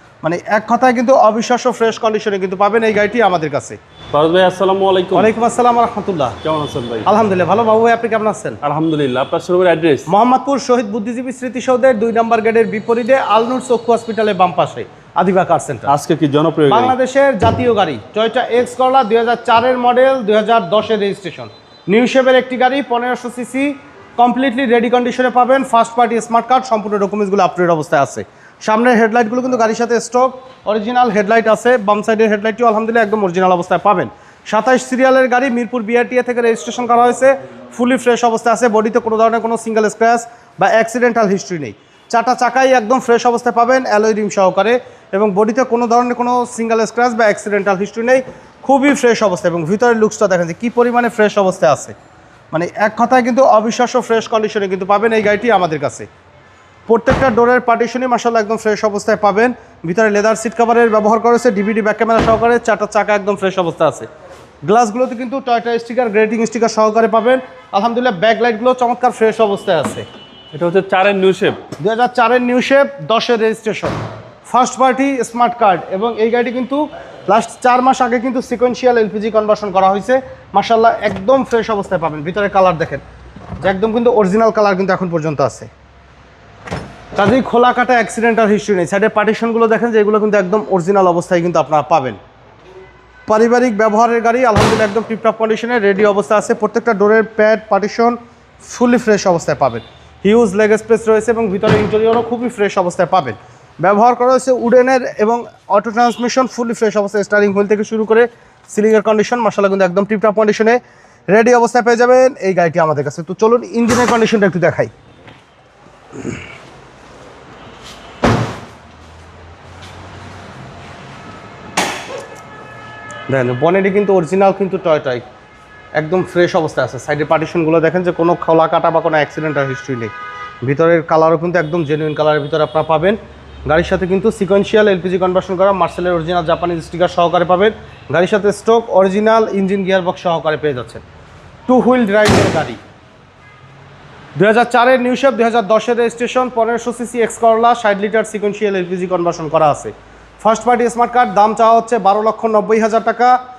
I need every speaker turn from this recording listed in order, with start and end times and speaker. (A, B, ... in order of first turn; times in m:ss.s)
0:00.2-0:03.8 A
0:04.1-0:05.3 B
0:05.1-0:06.4 A
0:06.4-0:07.1 B
0:07.0-0:08.6 A
0:08.6-0:10.1 B
0:10.1-0:15.9 A
0:15.9-0:16.9 B
0:16.7-0:51.9 A
0:52.5-0:56.1 A
0:56.9-1:04.1 A
1:04.6-1:10.0 A
1:10.5-1:11.6 B
1:11.8-1:23.0 A
1:23.6-1:25.7 A
1:27.2-1:32.2 A
1:33.3-1:50.8 A
1:51.3-1:54.9 A
2:03.3-2:05.2 A
2:06.0-2:10.1 A
2:10.6-2:21.0 A
2:21.7-2:22.8 A
2:24.4-2:33.4 A